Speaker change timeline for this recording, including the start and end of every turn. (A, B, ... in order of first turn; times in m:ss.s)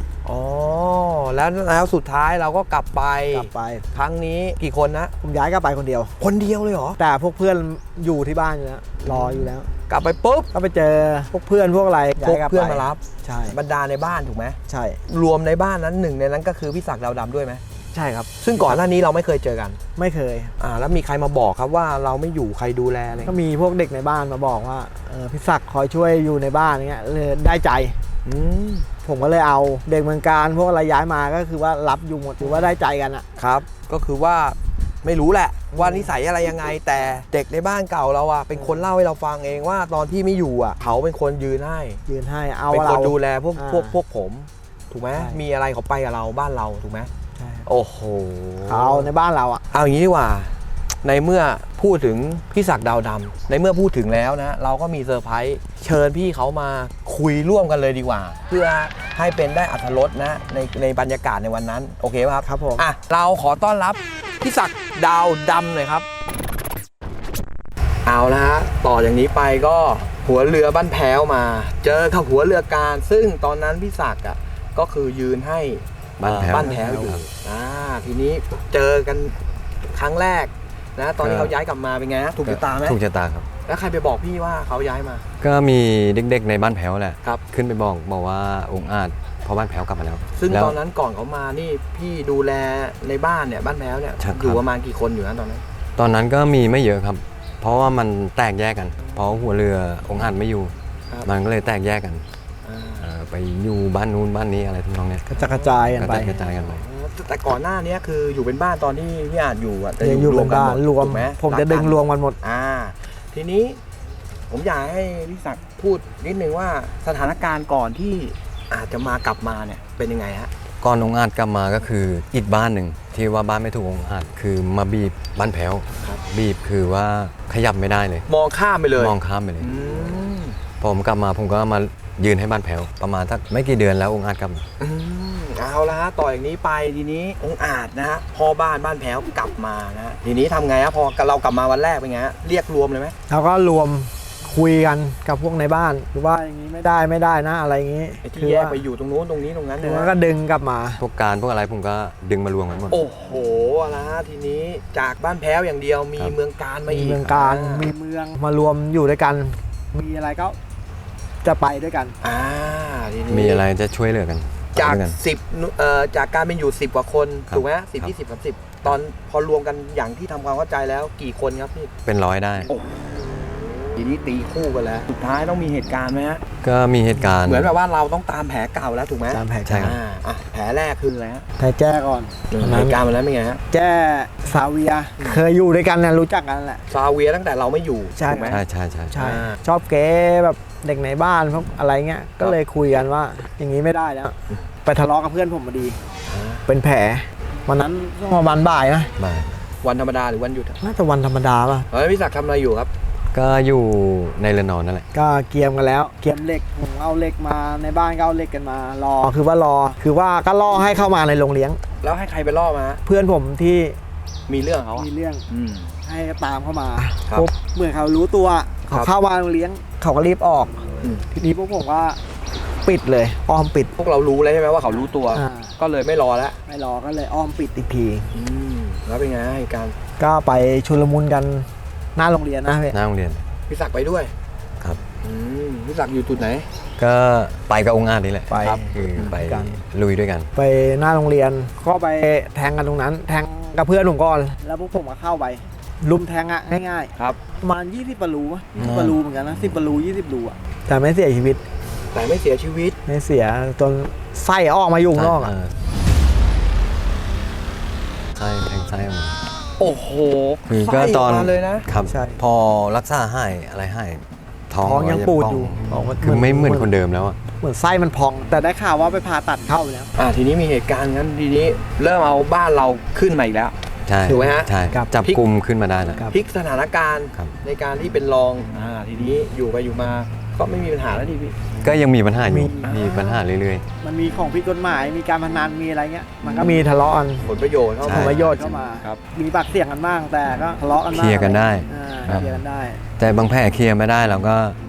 0:00.2-0:05.1 A
0:03.3-0:03.9 B
0:05.2-0:06.2 B
0:06.2-0:07.0 A
0:07.0-0:09.7 B
0:09.1-0:10.5 A
0:10.5-0:13.6 B
0:12.2-0:17.6 A
0:14.7-0:15.0 B
0:17.9-0:18.8 B
0:18.3-0:19.8 A
0:20.0-0:20.5 B
0:20.6-0:23.4 A
0:23.2-0:28.0 B
0:28.2-0:28.9 A
0:29.0-0:33.2 B
0:33.4-0:42.0 A
0:35.7-0:36.1 B
0:42.1-0:44.0 B
0:42.7-0:47.1 A
0:45.2-0:45.4 B
0:47.4-0:47.7 B
0:47.7-0:49.1 A
0:48.7-0:49.6 B
0:49.7-1:06.1 A
1:02.4-1:02.9 B
1:08.0-1:19.4 A
1:16.2-1:17.2 C
1:16.5-1:17.2 B
1:19.9-1:23.0 A
1:21.2-1:21.5 C
1:22.4-1:23.5 C
1:23.7-1:25.3 A
1:25.4-1:30.8 C
1:30.4-1:35.6 A
1:34.2-1:34.6 C
1:36.0-1:40.7 C
1:39.0-1:39.3 A
1:41.2-1:42.2 C
1:42.6-1:43.1 A
1:43.0-1:45.2 C
1:45.3-1:46.3 B
1:45.4-1:53.8 A
1:45.9-1:46.8 C
1:50.0-1:52.4 B
1:54.5-2:00.5 A
2:00.8-2:08.3 C
2:08.3-2:10.6 A
2:09.0-2:09.7 C
2:10.8-2:14.6 C
2:14.8-2:23.2 A
2:23.3-2:28.8 B
2:28.2-2:30.1 A
2:29.8-2:31.0 B
2:31.0-2:33.0 C
2:32.9-2:37.9 A
2:36.9-2:40.6 B
2:41.4-2:42.2 B
2:42.2-2:43.6 A
2:43.3-2:45.2 C
2:44.8-2:51.9 A
2:47.5-2:48.1 C
2:52.0-2:52.7 C
2:52.7-2:56.4 A
2:56.6-2:57.7 C
2:57.4-3:01.5 A
2:59.3-3:00.0 B
2:59.7-3:00.0 C
3:01.6-3:03.0 B
3:02.5-3:03.6 A
3:03.7-3:06.9 B
3:06.9-3:08.6 A
3:08.2-3:08.6 B
3:08.5-3:09.2 C
3:09.1-3:16.0 B
3:09.2-3:09.6 A
3:16.3-3:16.6 A
3:16.7-3:19.1 B
3:19.2-3:19.5 C
3:19.8-3:20.8 A
3:20.8-3:21.9 B
3:21.9-3:22.9 A
3:23.3-3:25.1 C
3:25.1-3:31.8 B
3:32.0-3:33.0 A
3:33.1-3:34.0 B
3:34.5-3:35.9 A
3:35.0-3:35.4 B
3:36.0-3:42.2 B
3:42.8-3:43.9 B
3:44.0-3:46.6 A
3:45.3-3:45.8 B
3:46.7-3:48.4 B
3:48.3-3:50.0 A
3:50.2-3:53.0 B
3:52.9-3:53.4 C
3:53.7-3:54.3 A
3:55.2-3:56.7 A
3:57.0-4:00.5 C
3:58.5-3:59.8 B
3:58.6-3:59.4 A
4:00.6-4:11.6 B
4:08.7-4:09.0 A
4:08.8-4:09.8 C
4:12.1-4:13.0 A
4:13.1-4:15.5 B
4:15.1-4:15.7 C
4:18.4-4:19.4 C
4:19.8-4:21.8 A
4:20.7-4:27.4 C
4:22.1-4:22.4 B
4:24.8-4:26.9 B
4:27.6-4:30.1 B
4:30.2-4:35.4 A
4:34.1-4:36.3 C
4:36.1-4:41.7 A
4:41.8-4:43.8 C
4:42.4-4:43.0 B
4:42.8-4:43.4 A
4:44.0-4:47.5 B
4:46.4-4:46.9 A
4:47.4-4:49.2 A
4:48.0-4:48.6 C
4:48.0-4:53.0 B
4:51.1-4:52.6 C
4:53.2-4:54.8 C